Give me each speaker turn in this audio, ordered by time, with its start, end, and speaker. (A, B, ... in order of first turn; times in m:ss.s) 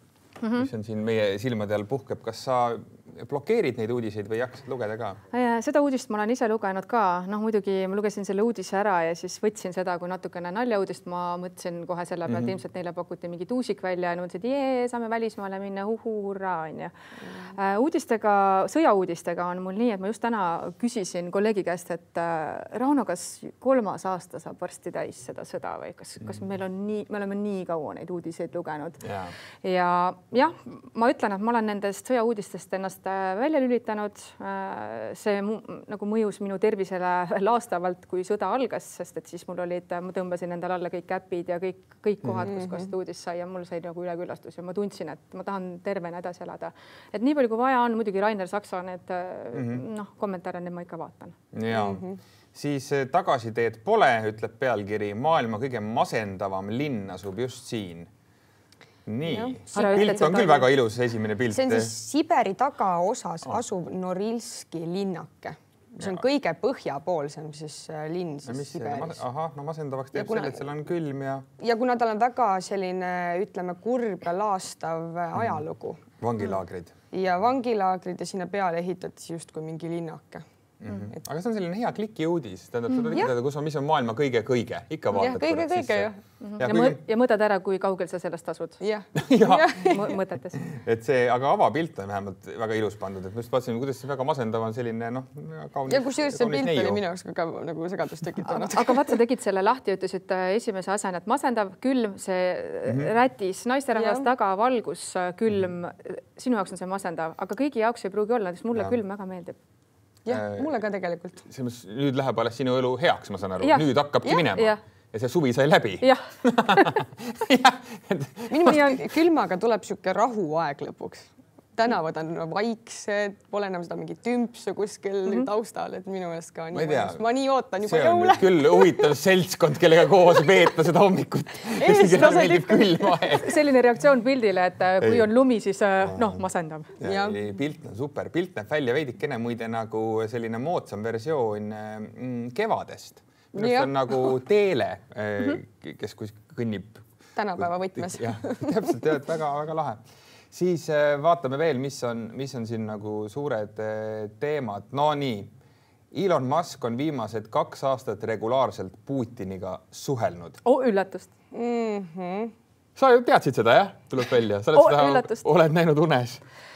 0:00.4-0:00.7 A
0:00.6-0:05.2 B
0:05.3-0:16.9 A
0:12.3-0:12.5 B
0:17.5-0:29.0 A
0:29.0-0:29.3 B
0:29.6-0:51.4 A
0:42.5-0:42.7 C
0:49.5-0:49.8 B
0:51.5-0:58.1 B
0:51.7-0:52.2 C
0:59.0-1:01.9 B
0:59.3-1:00.7 C
0:59.7-1:00.4 A
1:01.5-1:09.2 C
1:06.0-1:06.2 B
1:08.4-1:11.5 B
1:10.1-1:10.6 C
1:11.6-1:16.0 C
1:15.3-1:15.6 B
1:16.2-1:17.0 B
1:17.1-1:20.4 C
1:20.8-1:27.0 B
1:25.1-1:26.2 C
1:26.4-1:28.8 A
1:28.8-1:30.2 C
1:29.2-1:30.0 B
1:29.4-1:30.6 A
1:30.6-1:37.0 B
1:35.9-1:39.1 C
1:38.5-1:49.6 A
1:44.0-1:44.2 C
1:50.2-1:51.4 C
1:50.3-1:50.8 B
1:51.5-1:59.0 B
1:54.5-1:54.8 A
1:56.0-1:57.0 A
1:58.5-2:09.1 C
2:06.7-2:07.2 B
2:07.8-2:13.6 B
2:11.7-2:13.4 C
2:13.3-2:16.9 A
2:15.0-2:15.3 B
2:16.1-2:16.4 B
2:17.0-2:27.0 B
2:17.0-2:17.4 C
2:23.5-2:24.3 C
2:27.4-2:28.8 C
2:27.6-2:35.5 B
2:36.1-2:40.6 B
2:40.6-2:41.3 A
2:41.5-2:42.5 C
2:43.0-2:46.4 B
2:44.7-2:45.4 A